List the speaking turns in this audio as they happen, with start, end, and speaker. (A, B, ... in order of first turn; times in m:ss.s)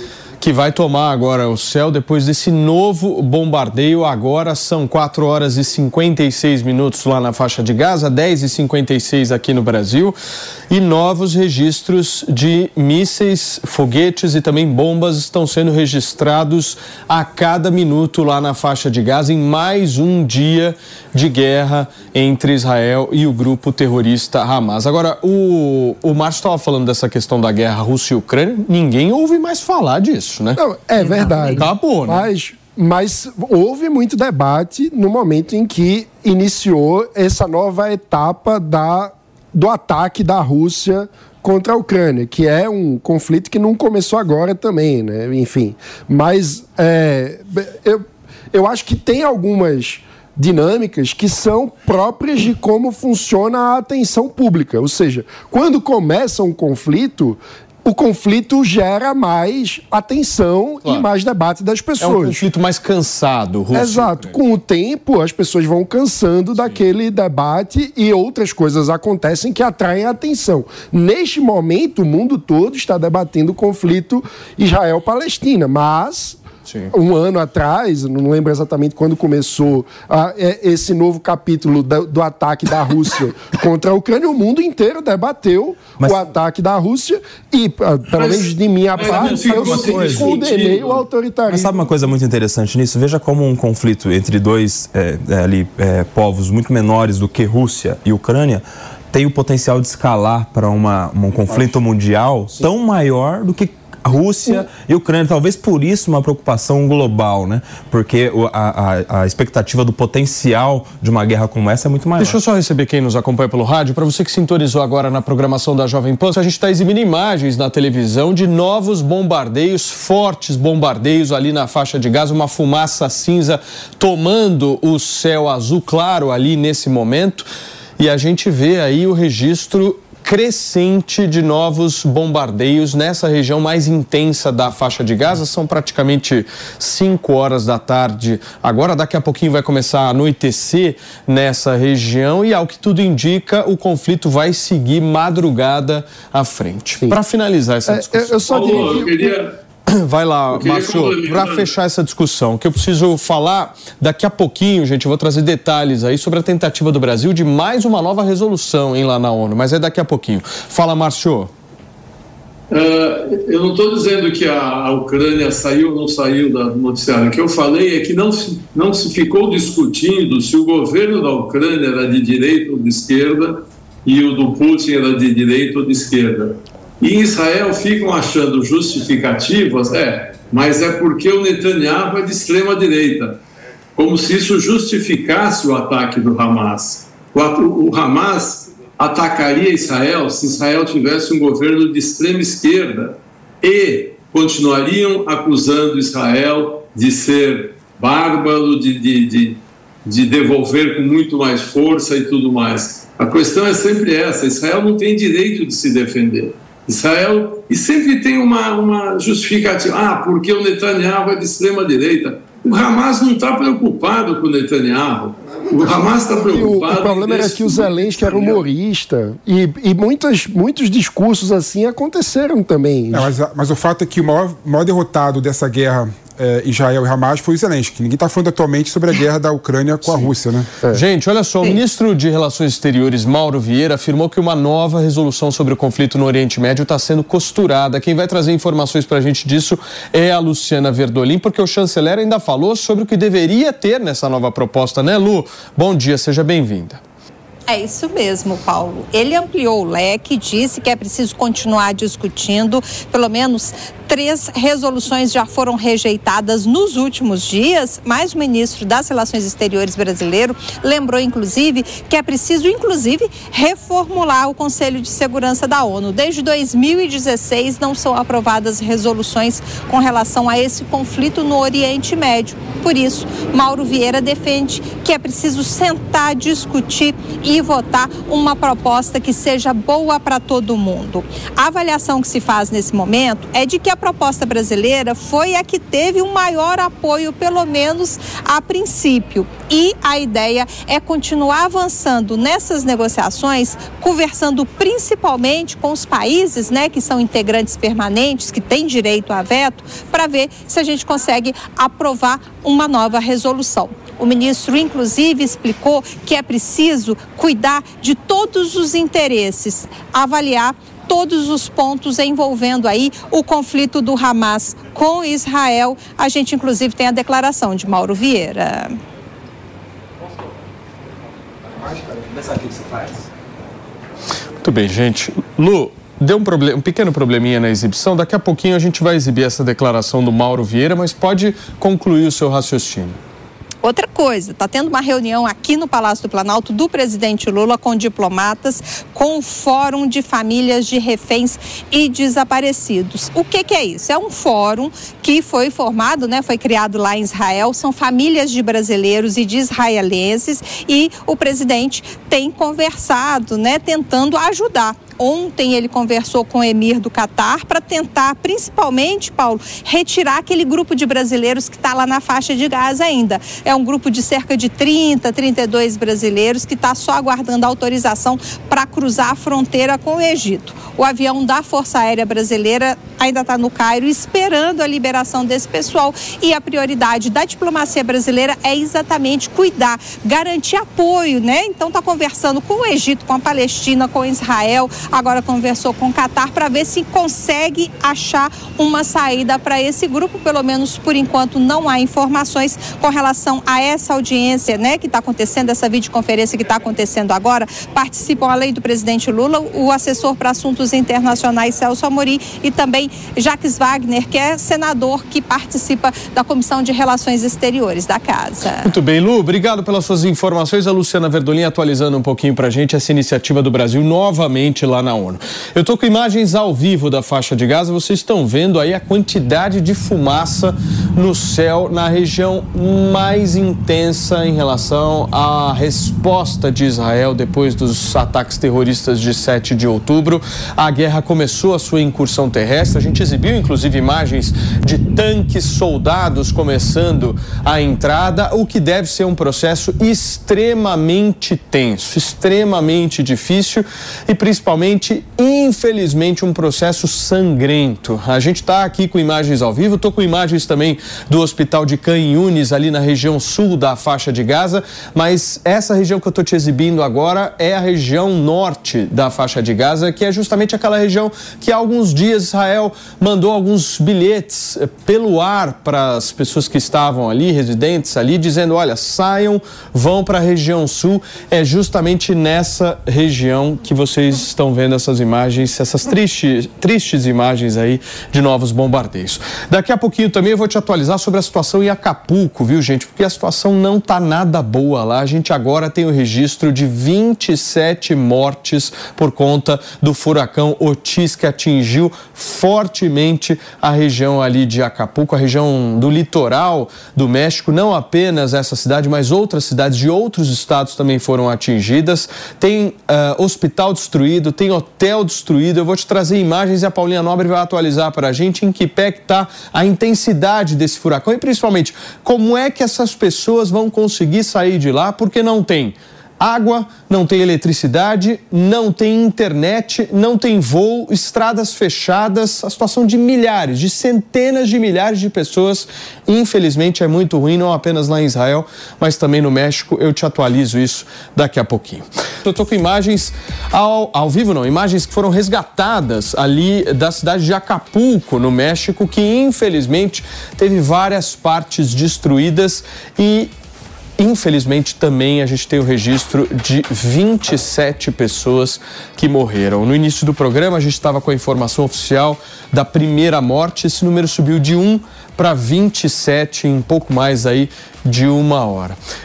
0:00.4-0:10.2 A
0:10.7-0:32.3 A
0:30.6-1:02.4 B
1:02.0-1:04.4 A
1:03.7-1:16.4 B
1:16.7-1:16.9 A
1:16.9-1:31.9 B
1:28.1-1:31.0 C
1:29.0-1:30.4 D
1:31.5-1:52.4 D
1:52.2-2:29.1 A
2:27.9-2:29.3 B
2:28.5-2:29.6 C
2:29.9-2:41.5 A
2:30.5-2:31.7 C
2:42.7-3:03.4 C
3:04.0-3:38.6 C
3:35.6-3:43.3 B
3:43.1-3:50.7 E
3:50.9-4:07.0 A
4:07.7-5:19.0 F
5:24.6-5:33.2 A
5:33.8-6:48.9 F
6:48.8-9:03.5 A
9:04.2-9:19.0 A